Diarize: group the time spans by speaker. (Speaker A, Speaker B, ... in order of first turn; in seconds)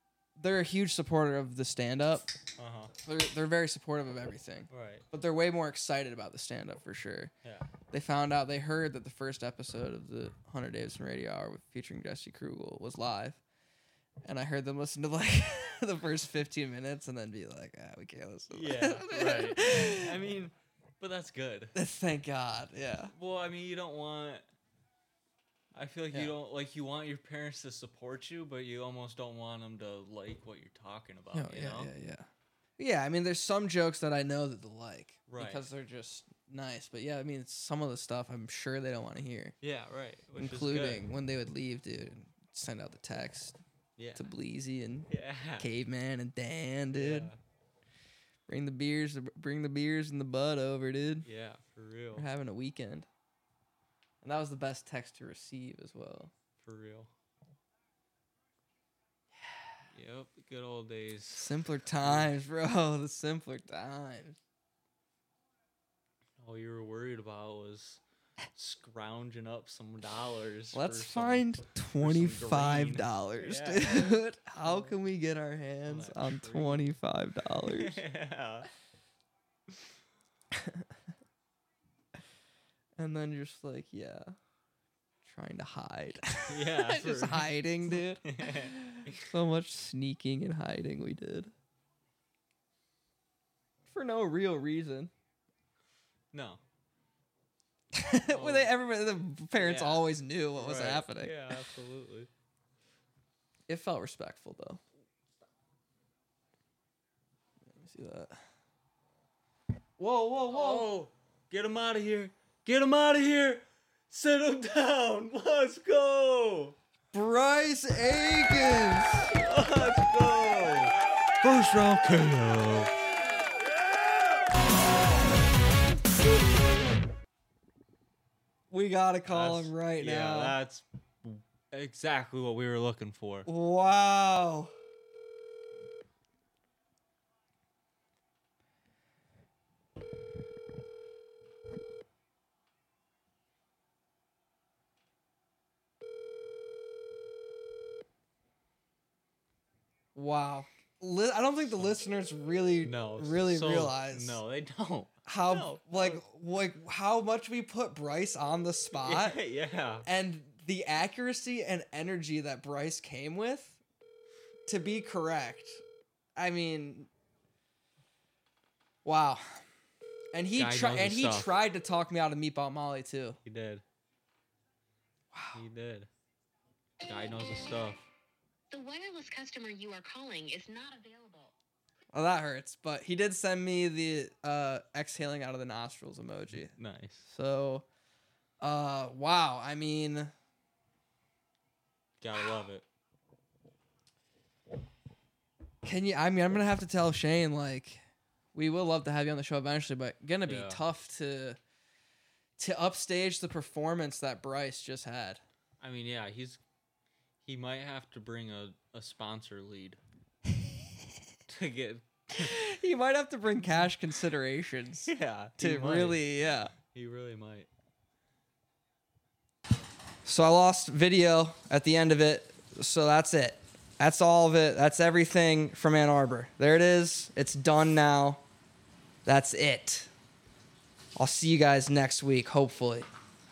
Speaker A: 0.4-2.3, 3.0-7.3, 7.9-13.4, 14.2-20.2, 21.7-23.1, 31.3-32.3, 32.8-39.5, 40.4-43.6, 44.1-47.3, 48.5-51.3, 52.1-53.0, 54.2-56.3, 61.4-64.4, 70.7-78.0, 80.5-80.8, 83.0-84.3, 85.2-91.5, 93.9-95.1, 97.9-101.5, 103.7-104.8, 107.8-108.3, 110.0-110.9, 117.1-119.3, 128.7-130.6, 133.4-134.7, 150.1-154.4, 155.2-159.4, 160.0-163.8, 164.7-165.8, 166.4-167.1, 169.0-169.6, 170.3-173.4, 175.3-175.6, 182.1-186.7, 187.2-187.8, 188.6-190.3, 195.8-198.0, 198.5-201.6, 202.6-205.4, 212.3-216.7, 220.2-228.4, 229.2-230.1, 231.2-233.1
Speaker B: 2.6-2.9, 4.7-5.0, 18.5-21.7, 23.1-24.5, 25.7-31.9, 35.3-35.7, 39.6-41.1, 44.0-44.3, 45.1-45.7, 46.9-47.4, 51.2-52.3, 56.6-57.1, 59.9-62.3, 66.4-68.0, 68.5-75.0, 75.8-76.9, 77.6-78.7, 86.5-89.3, 96.3-96.6, 98.3-98.8, 99.5-102.3, 110.5-116.8, 119.3-122.9, 129.3-133.5, 152.8-156.2, 158.9-160.1, 170.5-171.5, 173.4-173.8, 175.5-176.1, 177.0-178.1, 186.7-187.3, 192.2-192.8, 200.4-200.8, 205.8-206.6, 207.4-210.0, 211.5-212.6, 215.1-217.7
Speaker C: 178.7-181.5